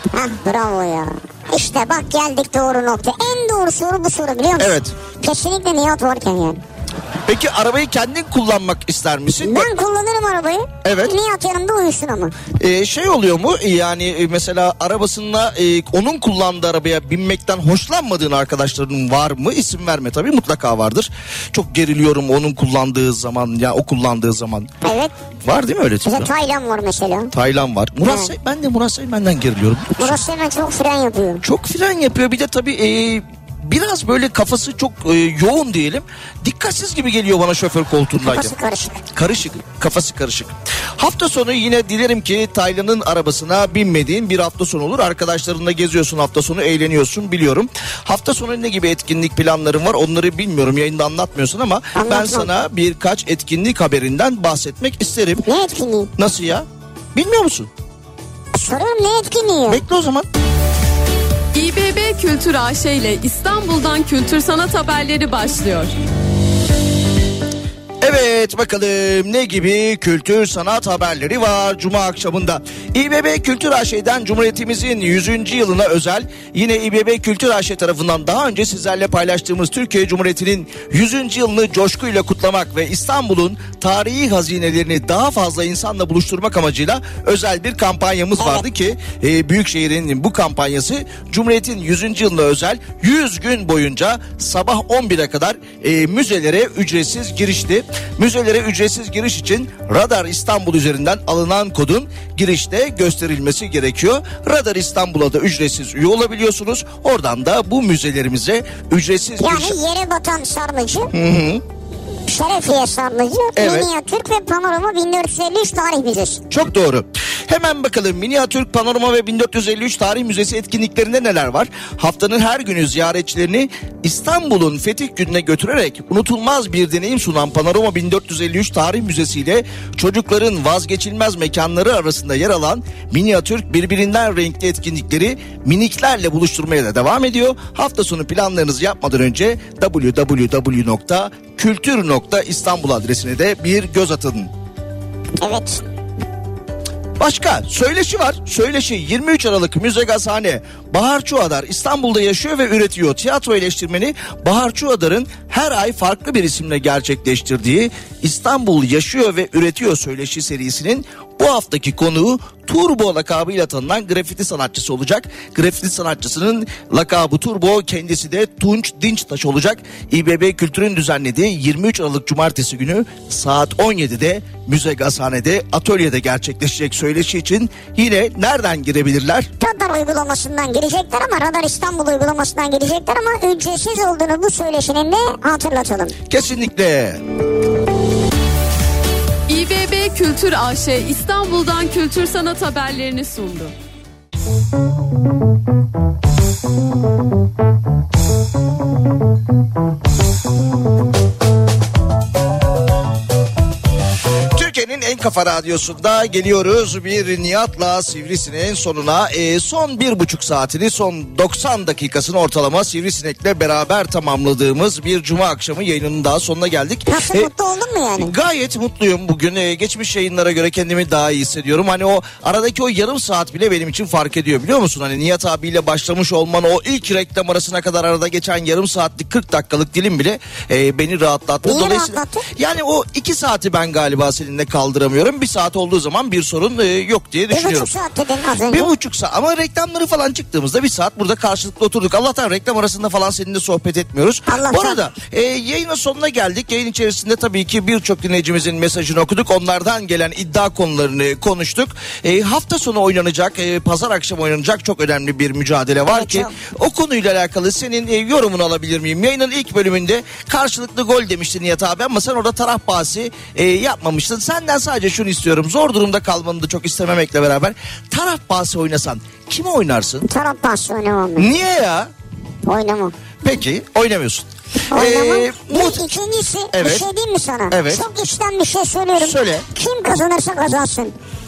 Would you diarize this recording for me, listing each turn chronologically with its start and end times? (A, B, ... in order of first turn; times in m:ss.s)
0:00.1-0:06.6 A
0:04.6-0:04.9 B
0:07.3-0:09.7 B
0:09.4-0:12.3 A
0:10.8-0:11.1 B
0:12.6-0:24.7 B
0:24.8-0:25.1 A
0:25.4-0:26.3 B
0:26.0-0:27.3 A
0:27.3-0:30.2 B
0:28.0-0:28.3 A
0:30.0-0:31.4 A
0:31.4-0:38.5 B
0:38.2-0:39.0 A
0:39.1-0:55.4 B
0:51.9-0:52.5 A
0:55.4-0:56.1 A
0:56.2-0:57.7 B
0:58.5-0:59.8 A
0:59.7-1:00.3 B
1:01.5-1:05.9 C
1:08.0-1:49.7 B
1:28.4-1:28.7 A
1:49.4-1:51.1 A
1:51.1-1:51.6 B
1:52.3-1:56.4 A
1:53.6-1:53.9 B
1:56.5-2:24.5 B
2:25.4-2:25.8 A
2:27.2-2:59.5 B
2:59.6-3:06.1 A
3:06.3-3:07.2 B
3:09.5-3:13.7 C
3:24.5-3:37.5 B
3:37.1-3:38.4 A
3:38.2-3:57.9 B
3:51.6-3:52.5 A
3:57.5-3:58.9 A
3:58.7-4:30.2 B
4:04.5-4:05.0 A
4:16.1-4:16.5 A
4:30.3-4:31.5 A
4:31.4-4:32.1 B
4:32.6-4:33.1 A
4:33.4-4:36.0 B
4:34.9-4:41.1 A
4:36.7-4:37.1 B
4:37.7-4:38.0 B
4:39.2-4:39.6 B